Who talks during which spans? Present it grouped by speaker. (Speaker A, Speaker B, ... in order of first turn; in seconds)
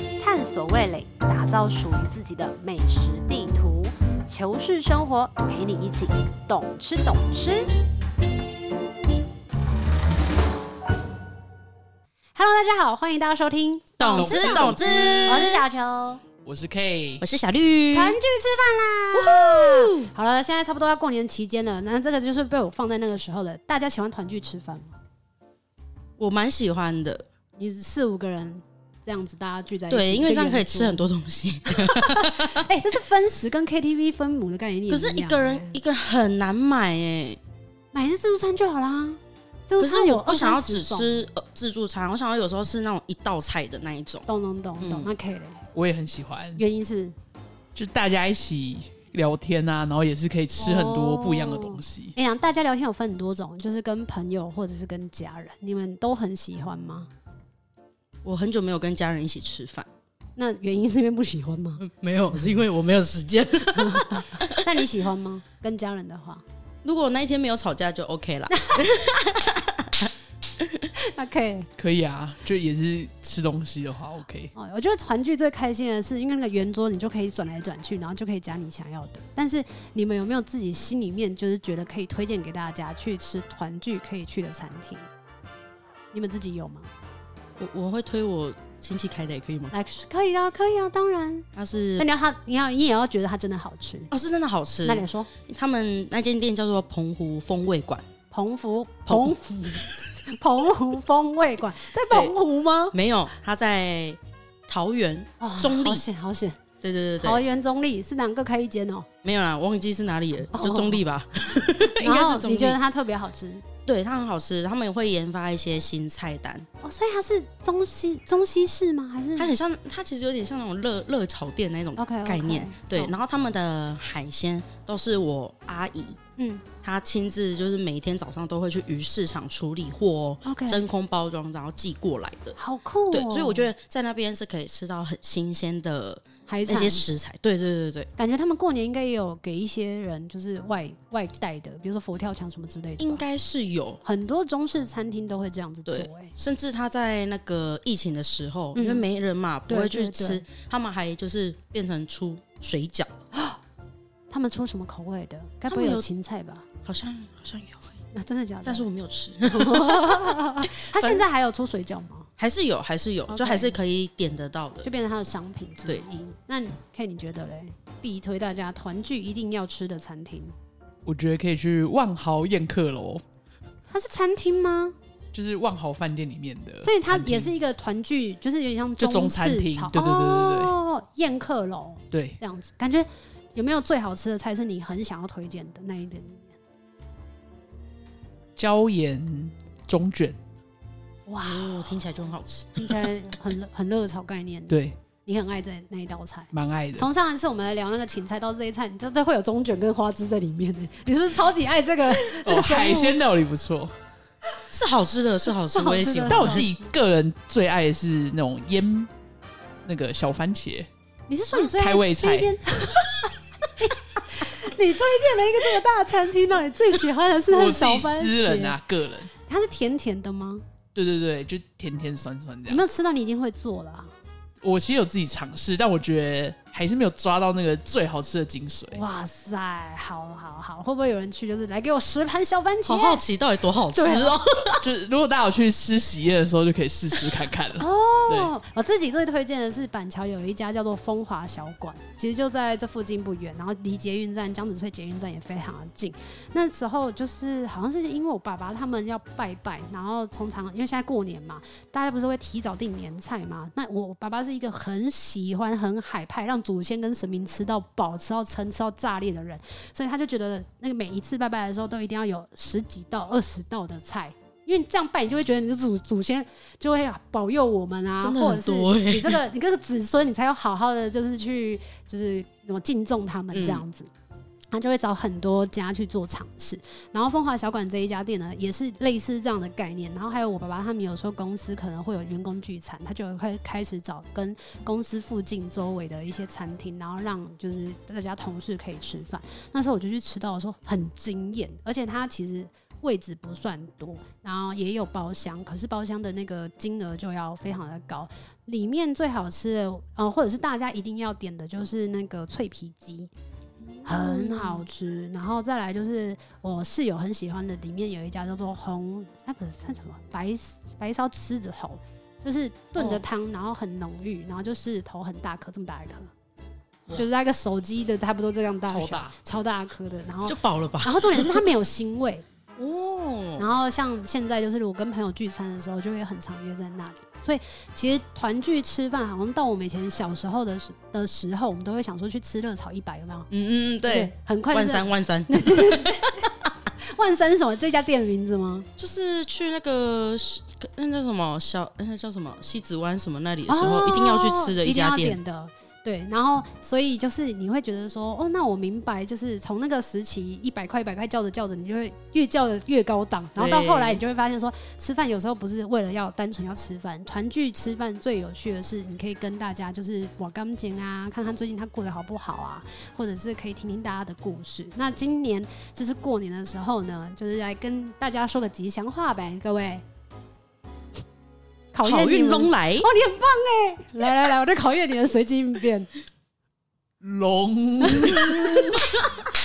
Speaker A: 0.2-7.7, 12.3-14.7, 15.2-16.2, 17.9-24.9, 27.6-31.0, 31.7-35.8, 37.9-41.3, 44.3-45.6, 46.6-47.1, 50.5-57.1, 60.4-61.8, 63.7-66.4, 68.5-68.9, 71.0-71.7, 74.5-85.1, 86.1-86.9, 89.7-91.5, 92.0-94.1, 94.8-95.3, 98.3-102.9, 105.4-106.6, 107.2-109.1, 110.5-111.0, 112.0-113.6, 116.8-119.5, 122.0-123.2, 126.4-126.6, 130.4-130.8, 132.6-133.7, 136.5-137.1, 138.2-143.2, 144.0-146.3, 148.7-149.1, 149.7-150.4, 154.3-156.7, 158.1-158.9, 159.5-162.3, 163.3-163.8, 164.8-170.5, 173.9-174.9, 176.8-186.6, 191.3-192.0, 192.8-203.2, 205.7-206.7, 211.3-218.8, 219.4-220.6, 222.7-224.1, 228.9-233.2, 233.9-234.3, 237.8-274.1, 274.7-303.3, 304.0-316.3, 317.1-322.4, 323.6-333.5, 334.0-336.5, 337.1-338.9, 343.7-370.0, 371.9-376.1, 378.0-378.5
Speaker B: 14.0-15.6, 17.2-18.2, 19.1-20.1, 26.2-27.2, 29.9-32.6, 34.9-37.4, 39.8-44.3, 44.8-45.1, 58.2-59.9, 61.8-64.8, 66.8-70.7, 87.6-89.7, 91.5-92.1, 94.1-98.0, 99.1-99.9, 102.1-102.3, 102.9-106.0, 106.8-107.4, 109.2-112.8, 113.8-116.7, 119.4-126.2, 126.8-132.6, 133.1-138.1, 143.0-144.0, 145.8-153.1, 155.7-156.1, 156.8-157.9, 158.6-161.2, 162.4-164.9, 191.4-193.1, 204.7-206.6, 232.8-234.9, 268.2-269.4, 273.5-273.9, 304.0-304.9, 312.9-313.2, 320.4-321.6, 322.8-323.7, 333.5-336.1, 339.0-345.4, 353.6-354.2, 372.0-373.1
Speaker C: 14.0-15.2, 16.4-17.2, 45.7-46.6, 47.7-52.1, 71.8-74.5, 171.1-173.2, 175.3-177.5, 179.0-180.7, 182.1-182.4, 188.6-190.4, 194.7-195.0, 196.5-197.1, 202.4-203.9, 206.3-209.1, 209.8-210.9, 211.5-212.5, 217.5-219.3, 220.9-222.8, 224.6-229.0, 234.8-238.5, 318.9-319.3, 377.2-379.2